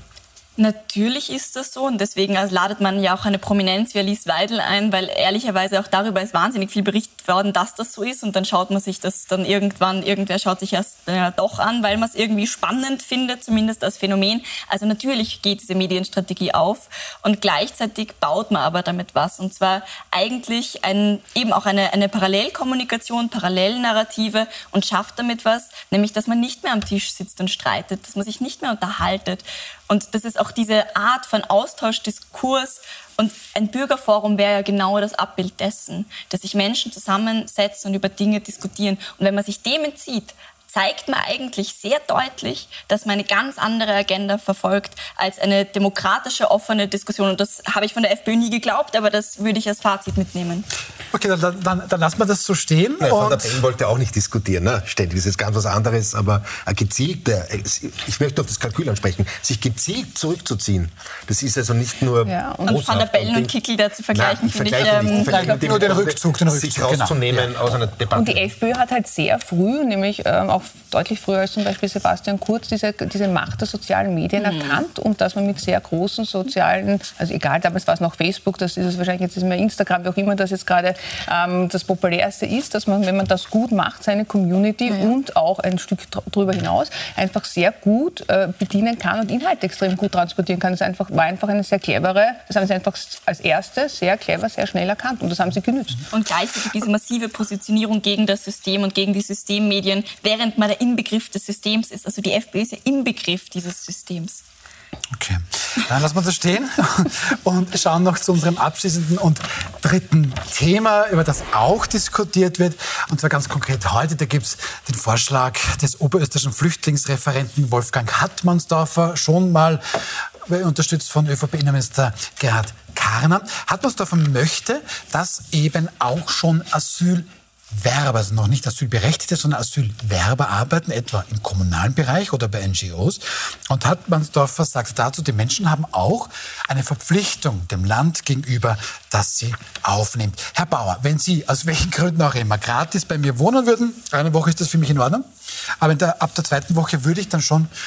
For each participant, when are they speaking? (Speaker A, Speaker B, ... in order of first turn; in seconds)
Speaker A: 0.6-50.7, 62.6-66.0, 74.4-74.7, 96.1-104.4
Speaker B: 51.1-53.6, 65.2-67.5, 105.1-145.2, 145.8-147.7
Speaker C: 53.0-63.5, 64.1-68.5
Speaker D: 62.2-62.7, 65.1-65.5, 68.1-96.1